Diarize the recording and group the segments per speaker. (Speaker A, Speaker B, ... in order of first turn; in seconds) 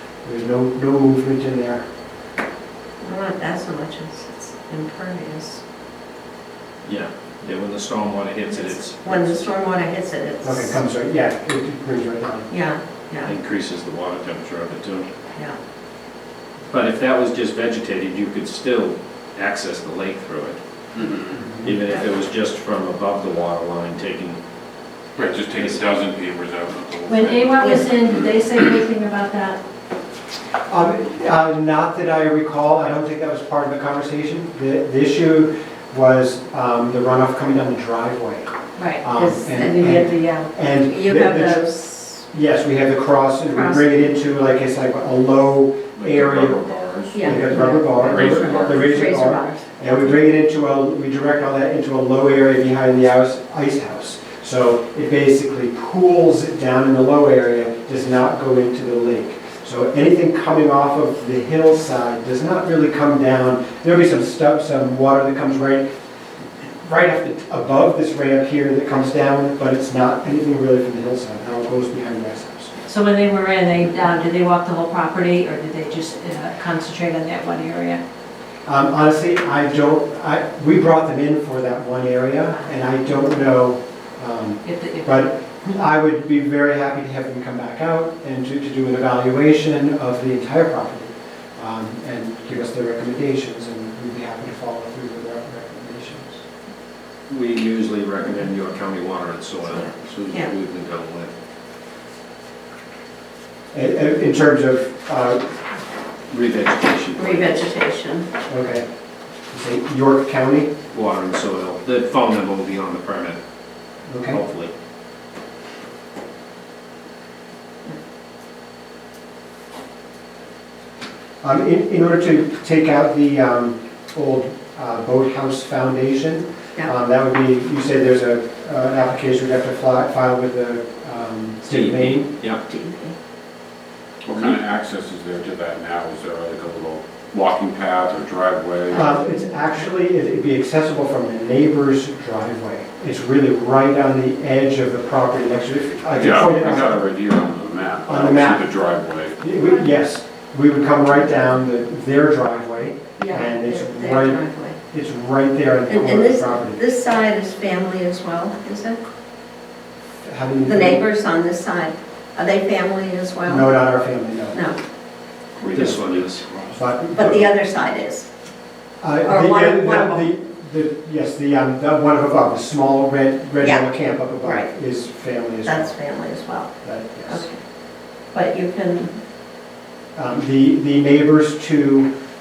Speaker A: 0.2-1.8, 10.4-12.5, 21.3-21.7, 30.7-38.5, 39.0-41.7, 42.3-46.6, 47.2-65.9, 66.8-72.7, 78.7-96.4, 103.7-105.5, 108.5-108.8, 109.5-110.7, 114.1-114.4, 121.4-132.3, 138.9-147.1, 148.1-148.7, 149.4-156.8, 160.2-161.1, 163.4-164.6, 166.7-167.5, 169.0-175.9, 176.8-177.5, 180.2-182.1
Speaker B: 3.0-5.6, 8.5-10.8, 12.5-13.3, 27.6-28.0, 39.1-39.9, 40.8-42.2, 43.5-43.9, 47.1-49.6, 99.7-100.5, 107.2-108.3, 132.7-133.1, 153.2-154.8, 155.9-159.0, 160.6-163.7, 167.1-168.2, 169.2-170.3, 173.6-173.9, 174.4-174.7, 175.6-176.7, 177.3-177.6, 178.3-179.2
Speaker C: 6.8-9.4, 13.2-15.1, 16.7-20.6, 21.6-24.4, 97.3-101.3, 106.3-107.6, 110.9-113.4, 114.2-114.7, 131.7-132.6, 165.7-166.4
Speaker D: 20.9-21.4, 25.2-28.7, 46.0-49.2, 49.8-50.2, 134.2-139.2, 146.1-149.4, 165.6-166.8
Speaker E: 27.1-29.6, 38.8-40.5, 72.9-78.0, 84.6-85.3